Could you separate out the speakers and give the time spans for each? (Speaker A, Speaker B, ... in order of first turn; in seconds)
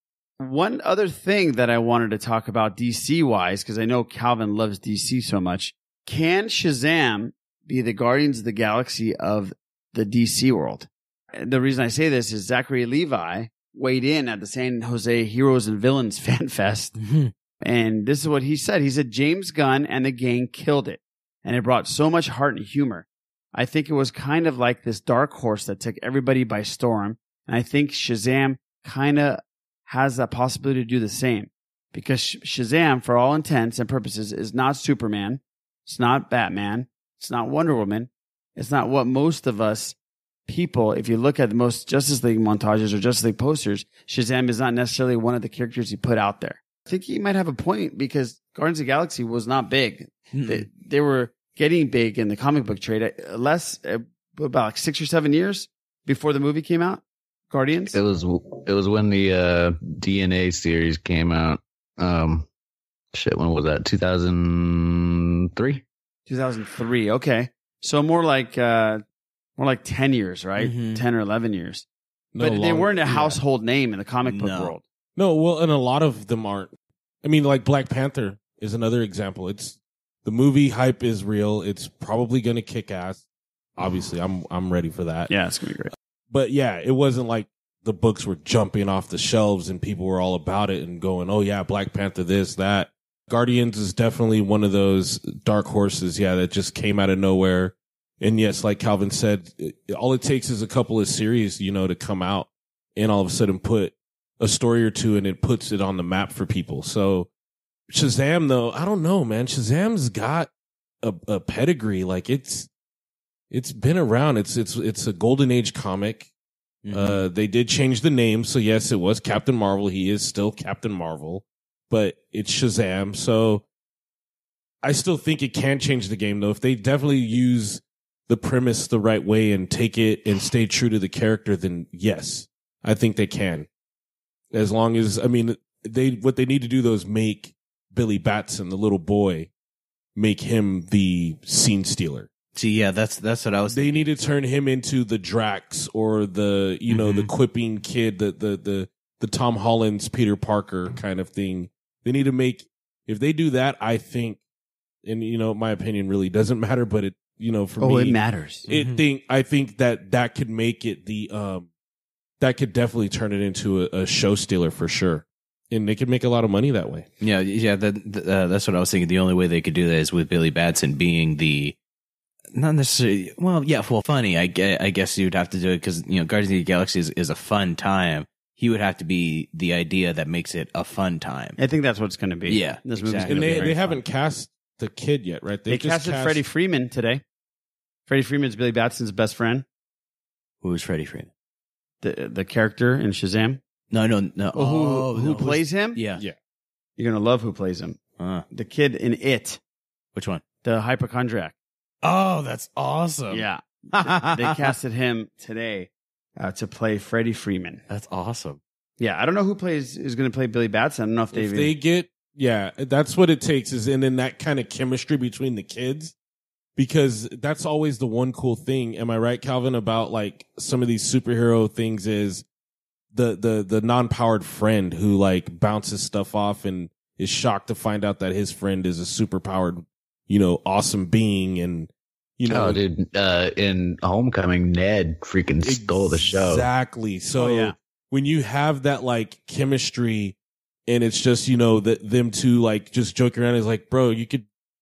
Speaker A: 0.4-16.9, 17.6-40.0, 40.5-58.0, 66.3-69.0, 69.6-71.8, 72.4-74.8, 85.3-85.9, 157.8-158.7, 181.6-184.0, 185.7-187.2, 188.1-189.7, 192.0-193.6, 194.6-196.0, 197.0-198.0, 198.5-199.6, 200.6-201.5, 203.3-207.8, 209.0-211.7, 237.3-237.7
Speaker B: 17.0-17.3, 50.3-50.6, 70.6-71.0, 74.3-74.8, 116.8-117.2, 142.6-144.1, 146.9-147.3, 158.7-159.0, 167.2-171.8, 172.5-181.6, 182.5-184.0, 190.6-191.3, 193.9-196.2, 198.2-198.4, 200.1-200.4, 202.0-204.5, 207.9-208.6
Speaker C: 57.9-62.5, 63.1-65.8, 232.5-236.7
Speaker D: 72.3-73.4, 75.2-76.7, 77.2-83.2, 83.8-85.3, 86.3-107.3, 107.9-110.5, 111.0-112.7, 113.5-116.3, 116.9-123.6, 124.8-133.7, 134.5-139.5, 140.2-142.3, 143.7-154.4, 155.0-161.7, 162.4-167.1, 183.2-186.4, 211.3-216.1, 216.8-222.4, 223.1-232.8, 235.6-240.4, 240.9-244.4